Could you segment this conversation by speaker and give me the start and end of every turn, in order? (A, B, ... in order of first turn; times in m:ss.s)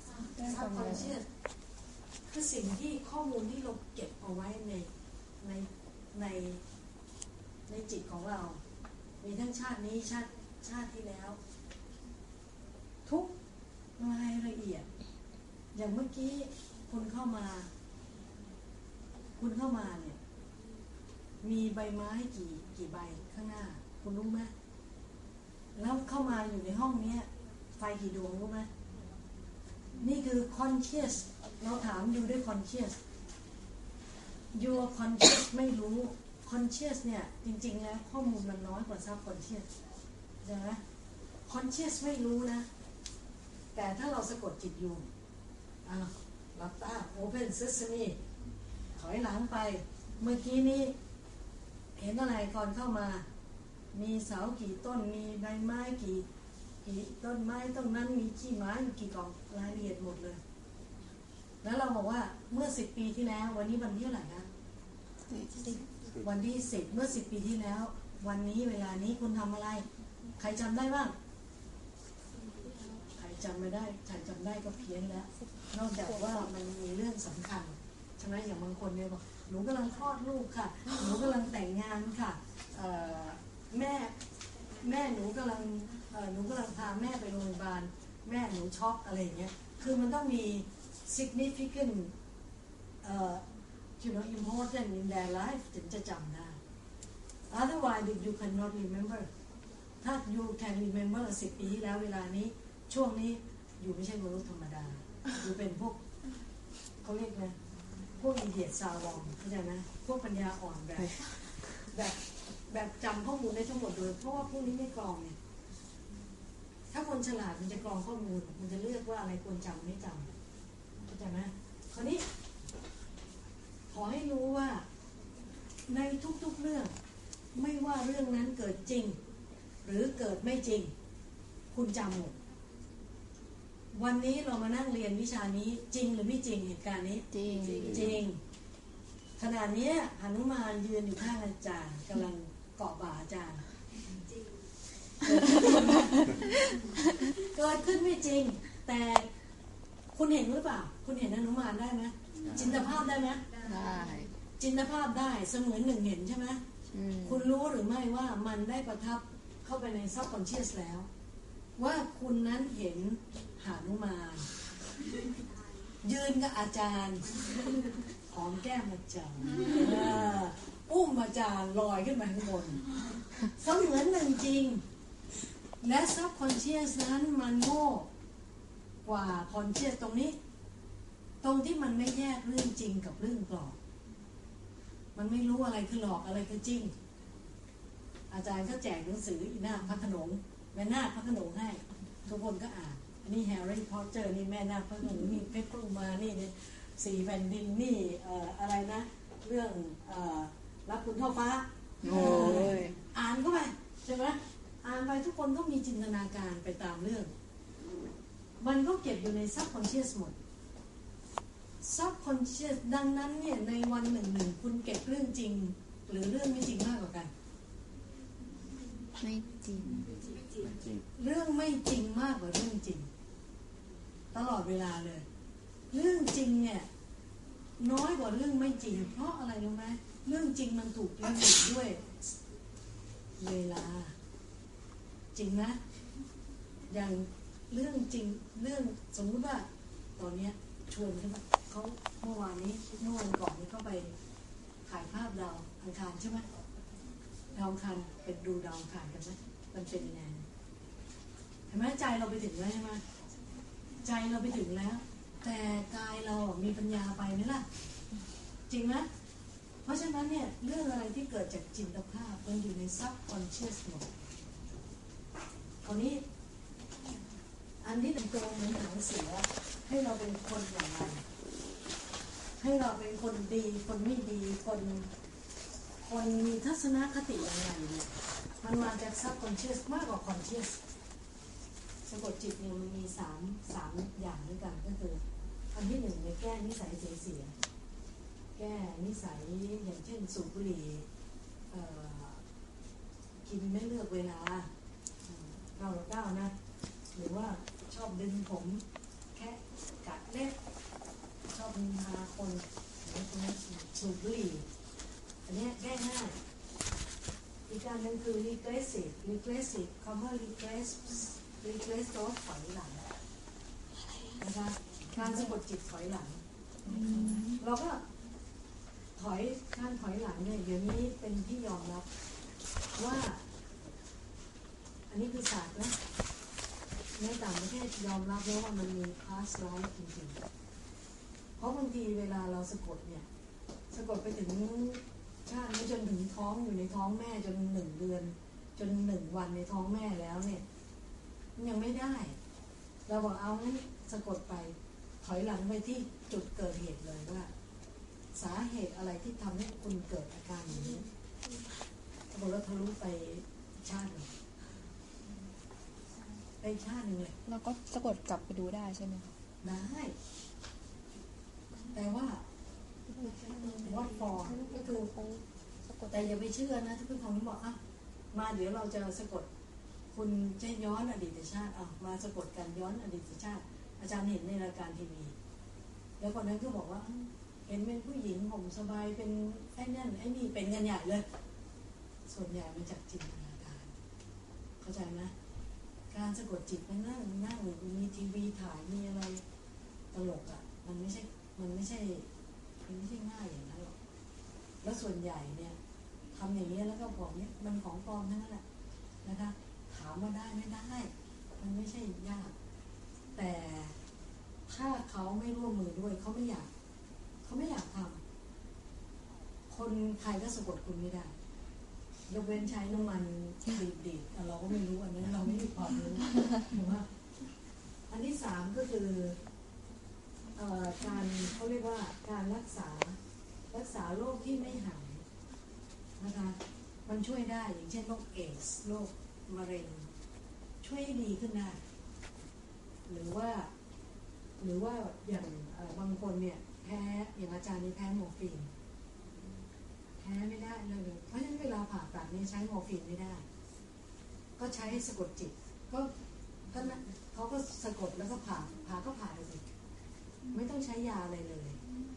0:00.2-0:01.2 A
0:00.4-0:01.2 B
0:02.2-0:04.9 B
0:05.4-0:06.6 B
0:07.7-0:08.6 B
0:09.2-0:11.4 B
0:13.0-0:13.4 B
0:14.0-0:14.9 B
0:15.7-0:17.7 B
0:19.4-0:20.2 B
0:21.4-0:24.5 B
0:25.8-0:28.7 B
0:30.0-0:33.0 B
0:34.5-0:39.7 B
0:40.4-0:40.8 B
0:41.4-0:42.7 B
0:43.7-0:45.1 B
0:45.8-0:48.2 B
0:49.0-0:51.0 B
0:52.0-0:53.3 B
0:53.9-0:56.2 B
0:56.8-1:00.4 B
1:01.6-1:04.5 B
1:05.3-1:05.8 A
1:06.2-1:09.9 B
1:10.4-1:11.2 B
1:13.1-1:24.2 B
1:16.1-1:16.5 A
1:24.8-1:32.1 B
1:33.0-1:33.4 B
1:34.0-1:36.6 B
1:37.5-1:39.3 B
1:40.0-1:46.0 B
1:47.0-1:47.6 B
1:48.2-1:55.4 B
1:56.9-2:00.3 B
2:01.1-2:02.2 B
2:03.9-2:04.9 B
2:05.9-2:06.9 B
2:07.6-2:09.2 B
2:09.8-2:10.9 B
2:11.7-2:12.3 B
2:13.9-2:17.3 B
2:17.3-2:17.9 A
2:17.8-2:18.2 C
2:17.8-2:18.4 B
2:19.4-2:23.6 B
2:25.2-2:26.4 B
2:25.6-2:26.0 A
2:27.2-2:29.3 B
2:30.1-2:33.4 B
2:32.4-2:32.7 C
2:33.6-2:34.3 A
2:34.6-2:36.6 B
2:36.9-2:37.4 A
2:37.2-2:41.1 B
2:41.8-2:44.5 B
2:46.0-2:47.3 B
2:48.3-2:52.8 B
2:53.5-2:54.8 B
2:55.8-2:58.1 B
2:59.0-3:00.4 B
3:01.4-3:03.8 B
3:05.2-3:06.9 B
3:08.3-3:27.3 B
3:22.0-3:23.0 A
3:28.6-3:30.3 B
3:31.8-3:37.3 B
3:39.2-3:40.1 A
3:39.8-3:41.0 C
3:41.2-3:43.1 B
3:44.3-3:45.2 B
3:45.9-3:46.9 B
3:47.8-3:52.3 B
3:53.4-3:54.1 B
3:55.3-3:55.8 B
3:56.9-3:59.7 B
4:00.2-4:04.1 B
4:04.9-4:06.4 B
4:07.5-4:10.4 B
4:11.7-4:13.0 B
4:14.0-4:17.7 B
4:18.7-4:19.1 B
4:19.8-4:24.1 B
4:25.8-4:26.2 B
4:27.8-4:31.2 B
4:32.6-4:35.1 B
4:36.0-4:38.1 B
4:38.6-4:40.8 B
4:42.1-4:45.2 B
4:45.7-4:47.5 B
4:48.6-4:51.1 B
4:51.7-4:52.4 B
4:53.5-4:54.7 B
4:55.6-4:56.5 B
4:57.2-5:00.6 B
5:01.5-5:04.7 B
5:05.5-5:06.4 B
5:07.7-5:13.1 B
5:14.4-5:16.4 B
5:16.9-5:17.6 A
5:17.6-5:18.0 B
5:19.2-5:22.1 B
5:23.0-5:23.4 B
5:25.1-5:26.0 B
5:27.2-5:30.4 B
5:31.6-5:33.2 B
5:33.9-5:40.6 B
5:41.6-5:42.4 B
5:43.1-5:47.5 B
5:48.4-5:51.1 B
5:52.3-5:54.3 B
5:56.6-5:57.4 B
5:57.5-5:59.3 A
5:59.6-6:00.2 B
6:01.9-6:02.4 B
6:03.1-6:06.3 A
6:03.8-6:05.1 B
6:06.1-6:07.8 B
6:08.3-6:09.5 B
6:10.1-6:15.3 B
6:16.2-6:21.2 B
6:22.3-6:23.9 B
6:24.8-6:25.3 B
6:26.1-6:29.4 B
6:30.1-6:32.3 B
6:32.8-6:33.9 B
6:34.8-6:35.8 B
6:36.4-6:38.6 B
6:39.2-6:42.6 B
6:43.4-6:43.9 B
6:44.7-6:46.7 B
6:47.4-6:48.2 B
6:49.7-6:51.3 B
6:52.3-6:57.1 B
6:58.1-6:59.4 B
7:00.6-7:03.2 B
7:03.7-7:05.2 B
7:06.2-7:10.1 B
7:10.8-7:11.8 B
7:13.1-7:13.7 B
7:14.6-7:18.7 B
7:20.2-7:23.4 B
7:24.6-7:26.1 B
7:26.7-7:29.6 B
7:30.5-7:31.8 B